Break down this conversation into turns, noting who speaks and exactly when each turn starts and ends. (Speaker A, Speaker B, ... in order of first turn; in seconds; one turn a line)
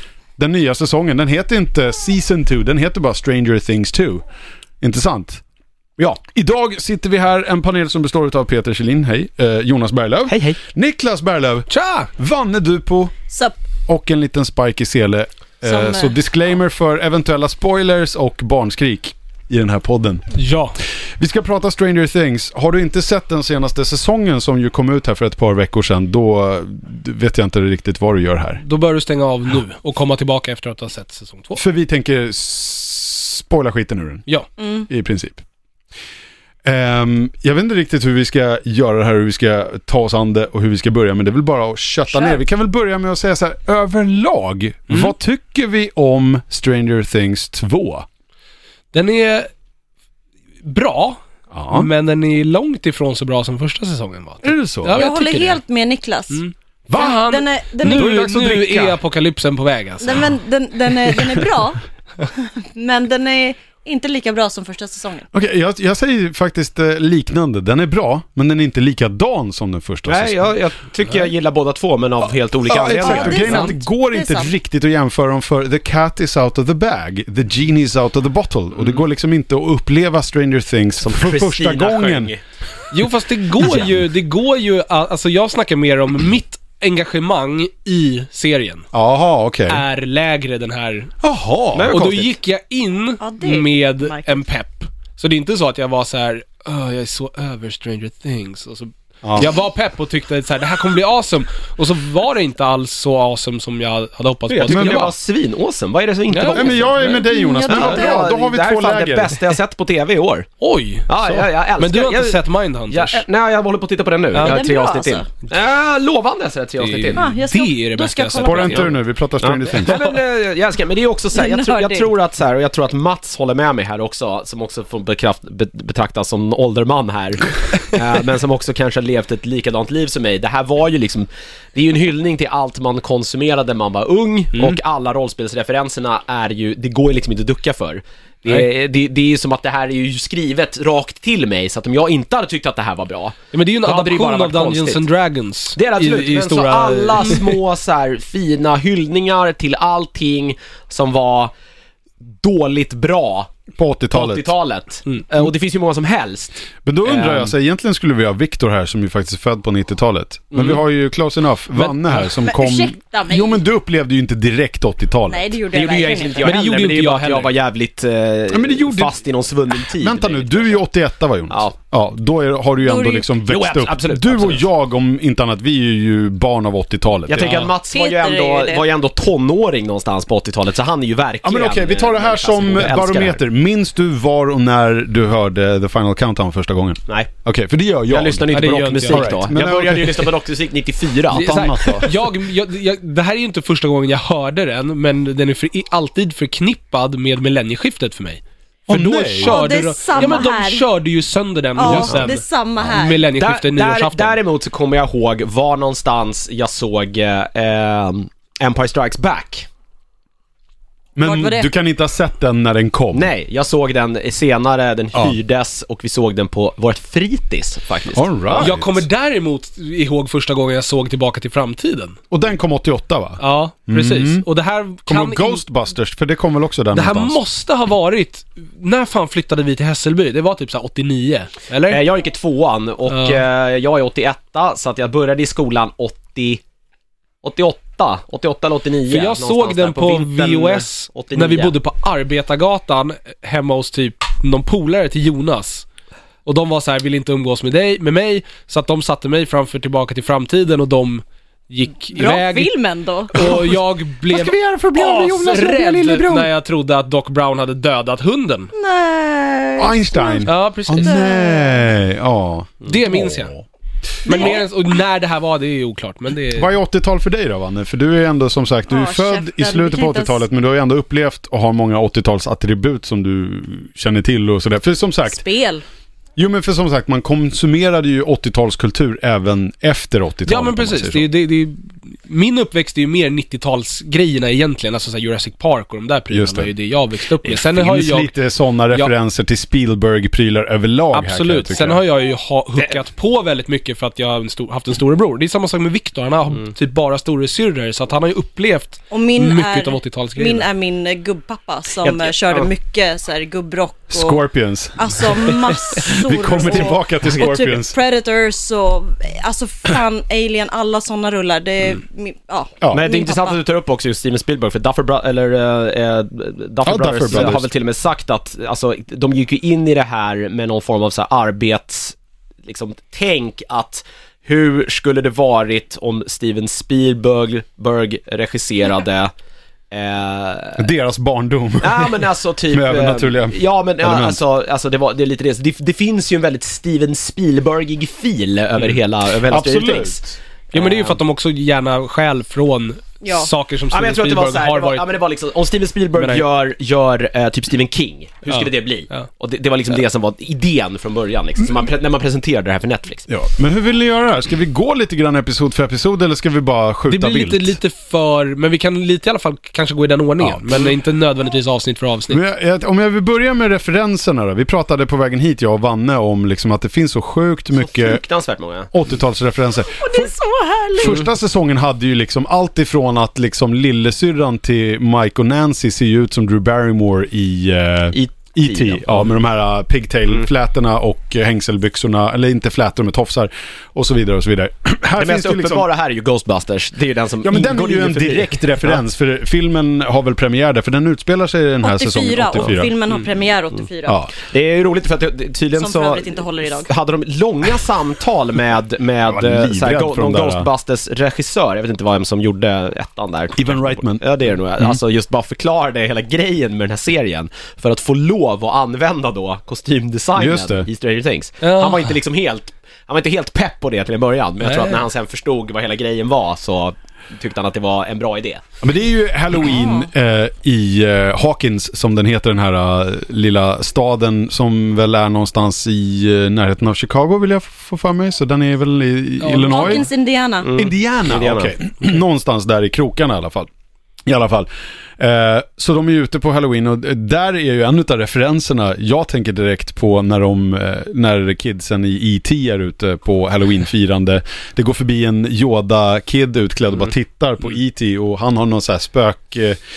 Speaker A: 0.4-4.2
Speaker A: 4.8-5.4
Speaker A: 6.2-13.1
Speaker B: 10.3-10.6
Speaker C: 11.7-12.1
Speaker D: 13.3-13.6
Speaker A: 13.9-20.2
Speaker D: 15.6-16.1
Speaker C: 20.3-20.8
Speaker A: 21.2-28.6
Speaker C: 28.6-31.6
Speaker A: 31.6-34.2
Speaker D: 34.6-34.9
Speaker A: 34.9-35.4
Speaker A: 36.6-48.0
Speaker D: 42.1-42.4
Speaker C: 48.9-49.5
Speaker C: 50.6-51.2
Speaker A: 51.5-51.9
Speaker C: 51.7-55.6
Speaker A: 54.4-55.0
Speaker D: 54.9-58.1
Speaker C: 56.3-60.3
Speaker A: 57.8-59.0
Speaker D: 60.0-65.3
Speaker A: 61.1-61.4
Speaker A: 65.3-70.5
Speaker B: 70.1-73.7
Speaker A: 72.6-82.3
Speaker D: 73.0-74.5
Speaker B: 81.0-82.4
Speaker C: 82.9-88.8
Speaker A: 88.9-89.8
Speaker C: 89.7-91.1
Speaker A: 91.2-91.9
Speaker B: 91.7-92.3
Speaker C: 91.9-105.1
Speaker D: 93.2-94.4
Speaker A: 99.2-99.5
Speaker B: 104.5-110.5
Speaker A: 104.6-105.1
Speaker C: 106.3-106.9
Speaker A: 106.5-109.4
Speaker D: 107.0-108.2
Speaker C: 110.6-113.2
Speaker B: 111.1-117.3
Speaker C: 114.3-114.7
Speaker D: 114.4-115.3
Speaker C: 116.8-118.9
Speaker D: 117.2-118.9
Speaker A: 118.4-120.0
Speaker B: 119.4-145.0
Speaker D: 121.3-122.1
Speaker C: 143.5-147.6
Speaker B: 145.7-151.5
Speaker B: 152.4-153.5
Speaker A: 153.7-154.5
Speaker B: 154.1-157.5
Speaker A: 156.8-165.6
Speaker B: 160.5-160.8
Speaker C: 161.8-162.3
Speaker D: 162.4-163.6
Speaker D: 165.3-166.5
Speaker B: 165.7-170.8
Speaker C: 166.4-167.5
Speaker A: 168.5-169.2
Speaker A: 169.7-177.6
Speaker B: 171.5-171.7
Speaker D: 172.8-173.3
Speaker B: 173.4-174.6
Speaker B: 177.3-183.4
Speaker C: 177.4-177.7
Speaker D: 177.9-178.8
Speaker A: 181.4-190.3
Speaker B: 188.1-192.2
Speaker C: 188.5-189.5
Speaker C: 191.3-204.4
Speaker A: 191.3-192.1
Speaker A: 198.9-199.6
Speaker D: 199.4-200.8
Speaker D: 201.8-203.2
Speaker A: 201.8-202.3
Speaker B: 203.4-209.7
Speaker A: 211.2-213.3
Speaker D: 211.2-211.7
Speaker B: 213.1-218.7
Speaker A: 218.1-219.0
Speaker C: 218.6-222.2
Speaker A: 222.3-224.4
Speaker C: 223.4-225.6
Speaker A: 225.1-227.4
Speaker C: 226.9-232.0
Speaker B: 231.9-236.6
Speaker C: 233.1-233.4
Speaker B: 237.4-241.7
Speaker C: 239.1-245.8
Speaker C: 246.4-252.7
Speaker D: 252.1-253.6
Speaker C: 253.3-258.7
Speaker A: 253.4-253.7
Speaker A: 254.3-256.5
Speaker D: 258.7-261.9
Speaker A: 259.8-263.6
Speaker C: 260.4-261.2
Speaker C: 262.8-263.5
Speaker C: 264.2-266.7
Speaker D: 264.2-264.6
Speaker A: 266.5-275.4
Speaker D: 268.9-270.4
Speaker D: 275.2-275.8
Speaker A: 276.4-281.2
Speaker C: 280.4-288.3
Speaker A: 286.3-286.7
Speaker A: 287.4-292.0
Speaker C: 291.1-300.6
Speaker D: 299.1-304.4
Speaker B: 302.0-302.7
Speaker A: 304.1-307.9
Speaker D: 304.9-313.6
Speaker B: 306.5-307.5
Speaker B: 312.9-329.3
Speaker A: 316.8-317.7
Speaker B: 329.9-330.9
Speaker A: 330.8-334.4
Speaker B: 331.8-340.2
Speaker A: 339.4-340.4
Speaker C: 340.7-345.1
Speaker B: 340.7-341.2
Speaker D: 343.2-343.5
Speaker B: 343.9-353.3
Speaker C: 346.1-346.4
Speaker C: 348.5-349.3
Speaker A: 353.3-357.8
Speaker C: 357.1-362.4
Speaker A: 362.3-368.2
Speaker B: 367.8-368.9
Speaker A: 368.9-370.3
Speaker D: 370.0-371.1
Speaker A: 370.9-385.9
Speaker B: 378.1-379.3
Speaker B: 385.2-389.0
Speaker A: 387.4-392.9
Speaker D: 391.8-394.3
Speaker A: 394.1-394.3
Speaker B: 394.4-418.6
Speaker D: 395.8-396.9
Speaker A: 399.2-400.7
Speaker A: 403.6-404.2
Speaker A: 410.4-410.9
Speaker C: 411.6-412.1
Speaker C: 414.6-415.0
Speaker A: 418.8-430.1
Speaker D: 419.7-420.1
Speaker C: 429.4-430.0
Speaker D: 429.6-430.7
Speaker B: 430.6-431.8
Speaker A: 430.7-433.7
Speaker A: 434.2-449.8